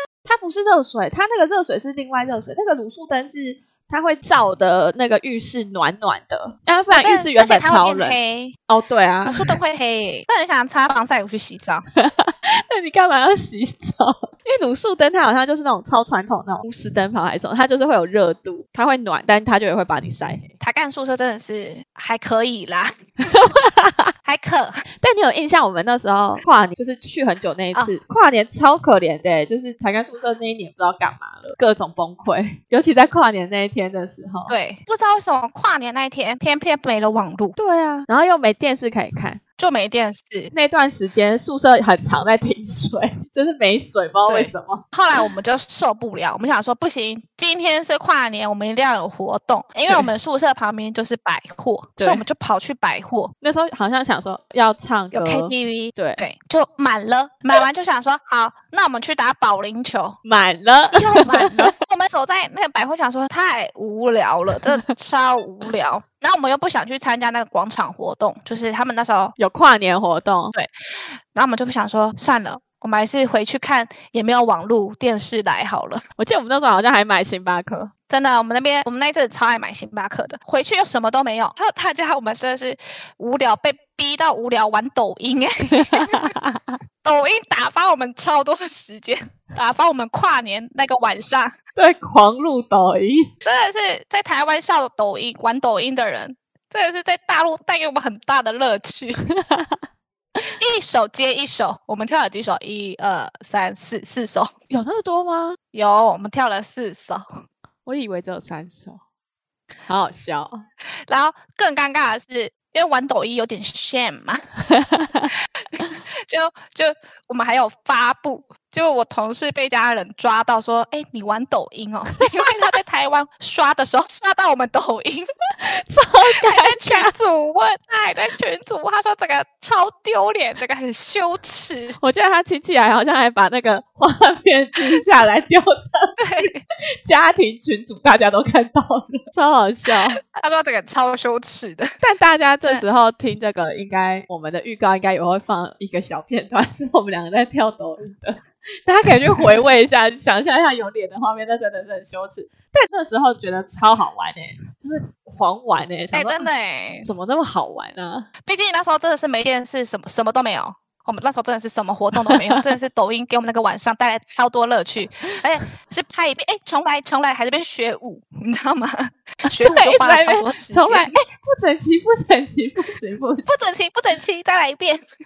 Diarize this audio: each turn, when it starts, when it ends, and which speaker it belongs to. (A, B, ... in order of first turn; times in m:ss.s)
0:00.2-0:08.2 A
0:06.9-0:08.6 B
0:08.7-0:09.5 A
0:09.3-0:11.8 B
0:12.0-0:20.5 A
0:20.6-0:23.1 B
0:23.2-0:24.1 A
0:24.2-0:24.8 B
0:25.0-0:34.5 A
0:34.5-0:37.6 B
0:37.6-0:39.4 A
0:39.6-0:40.5 B
0:40.5-0:44.8 A
0:44.3-0:53.3 B
0:52.0-0:52.2 A
0:53.4-0:56.2 A
0:55.1-1:00.2 B
1:00.2-1:01.7 A
1:00.9-1:09.3 B
1:09.4-1:10.5 A
1:10.5-1:16.0 B
1:16.2-1:17.9 A
1:18.1-1:26.3 B
1:25.8-1:26.8 A
1:27.0-1:31.5 B
1:31.8-1:33.3 A
1:33.4-1:39.2 B
1:39.3-1:39.8 A
1:40.4-1:44.5 B
1:44.7-1:45.6 A
1:45.7-1:47.4 B
1:47.8-1:49.0 A
1:49.9-1:50.6 A
1:51.1-1:54.4 B
1:54.7-1:55.3 A
1:55.7-2:05.2 B
2:05.6-2:07.1 A
2:06.5-2:12.0 B
2:12.0-2:16.5 A
2:16.2-2:16.6 B
2:17.0-2:20.2 A
2:20.2-2:21.9 B
2:22.0-2:36.5 A
2:36.1-2:37.1 B
2:37.0-2:38.3 A
2:38.4-2:51.1 B
2:42.3-2:42.6 A
2:49.6-2:53.5 A
2:53.4-2:55.0 B